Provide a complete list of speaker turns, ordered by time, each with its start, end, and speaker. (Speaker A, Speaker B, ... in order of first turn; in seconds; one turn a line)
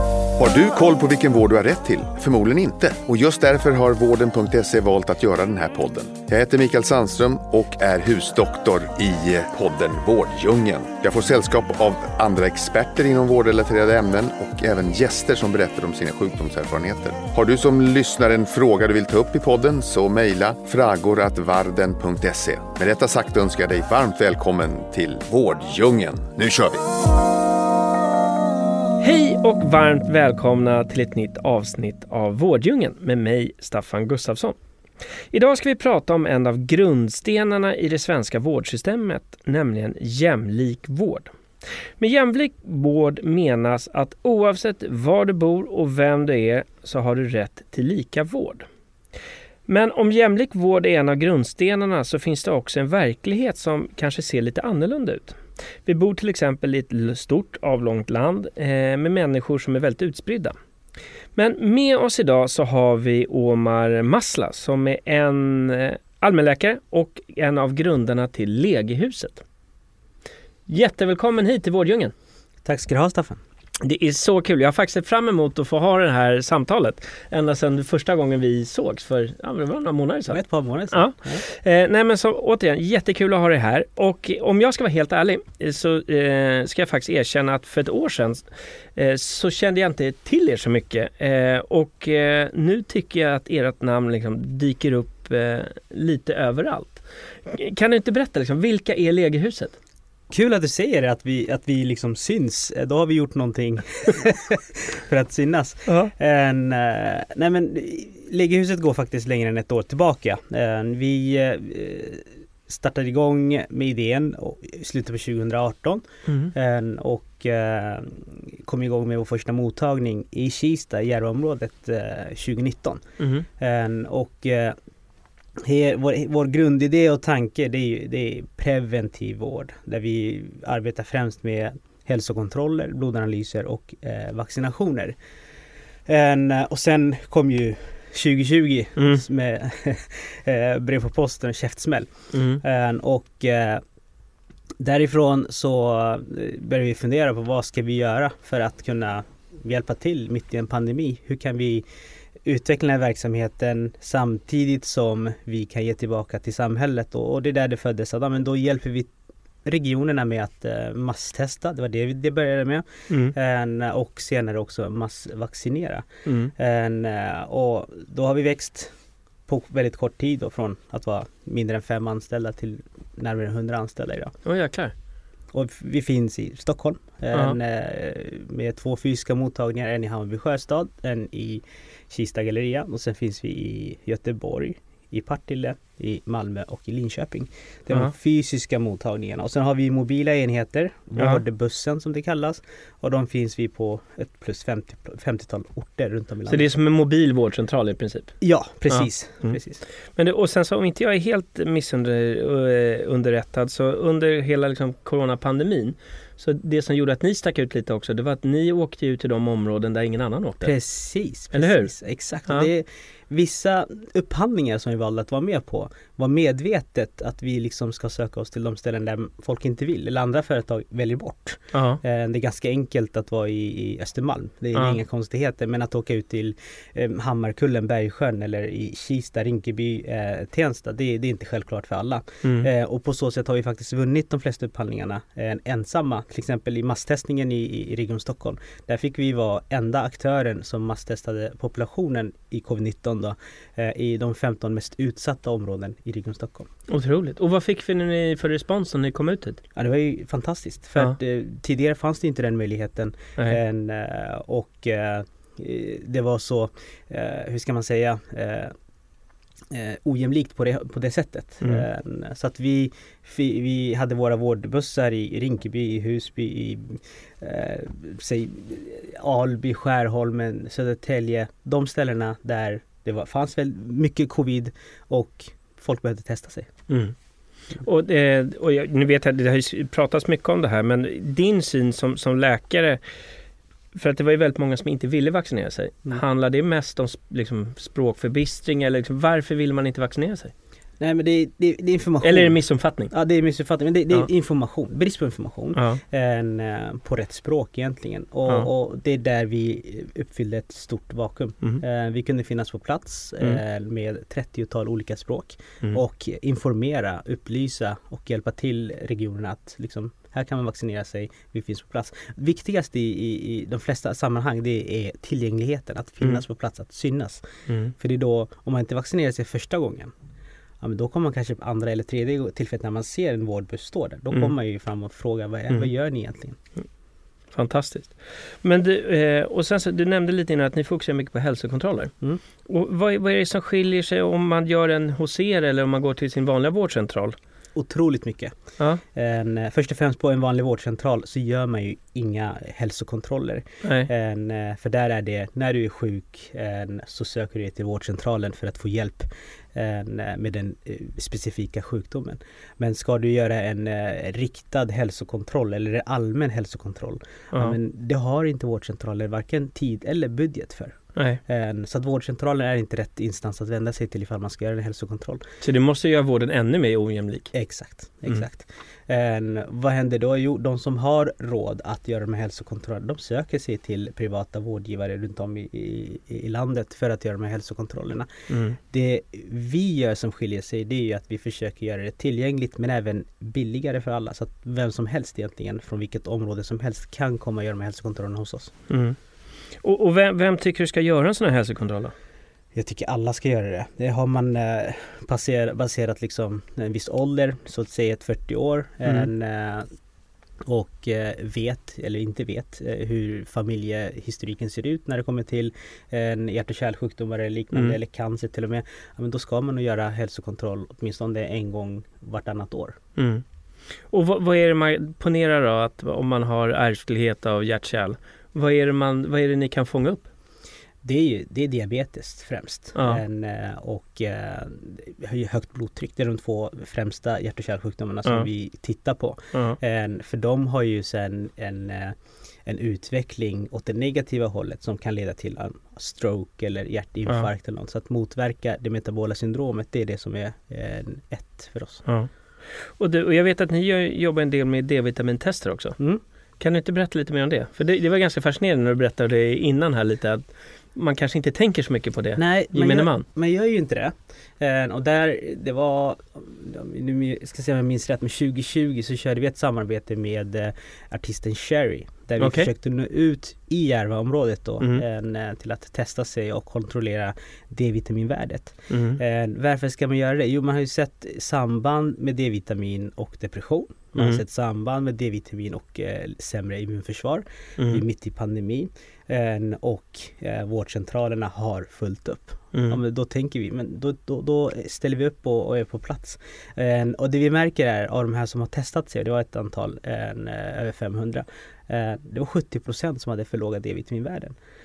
Speaker A: 0.4-26.8
Speaker B: 29.0-34.6
Speaker B: 35.3-41.3
Speaker B: 42.0-48.7
Speaker B: 49.7-60.5
Speaker B: 61.4-69.4
Speaker B: 70.7-72.1
Speaker C: 72.7-73.4
Speaker B: 73.8-99.8
Speaker C: 80.3-81.4
Speaker C: 100.3-123.0
Speaker B: 105.9-106.1
Speaker B: 116.3-116.5
Speaker B: 123.2-123.5
Speaker C: 123.6-124.8
Speaker C: 125.6-135.2
Speaker C: 136.1-143.8
Speaker B: 142.3-142.6
Speaker C: 144.8-151.8
Speaker C: 152.4-159.1
Speaker C: 159.7-168.9
Speaker B: 163.1-163.3
Speaker B: 166.3-166.5
Speaker C: 169.5-174.3
Speaker B: 174.4-174.9
Speaker C: 175.5-196.7
Speaker B: 196.5-199.6
Speaker C: 198.4-199.8
Speaker B: 200.2-210.8
Speaker C: 210.6-246.7
Speaker B: 211.5-211.9
Speaker B: 221.7-222.0
Speaker B: 246.9-249.6
Speaker C: 249.8-258.7
Speaker C: 259.7-276.7
Speaker B: 276.9-277.1
Speaker B: 277.8-283.0
Speaker B: 283.9-290.5
Speaker C: 291.0-320.1
Speaker B: 292.2-293.1
Speaker B: 295.8-296.0
Speaker B: 317.7-317.9
Speaker C: 320.8-326.6
Speaker B: 327.5-332.1
Speaker B: 332.7-337.4
Speaker C: 337.8-338.5
Speaker C: 339.1-365.5
Speaker B: 343.8-344.1
Speaker B: 365.6-367.5
Speaker C: 367.5-388.7
Speaker B: 378.5-378.8
Speaker B: 388.9-389.2
Speaker B: 389.8-392.1
Speaker C: 392.7-399.9
Speaker C: 400.7-413.0
Speaker B: 413.2-413.4
Speaker B: 414.1-420.3
Speaker C: 421.0-442.1
Speaker B: 423.0-423.2
Speaker B: 442.8-446.0
Speaker B: 446.6-453.2
Speaker C: 452.4-494.6
Speaker B: 462.4-462.7
Speaker B: 468.9-469.2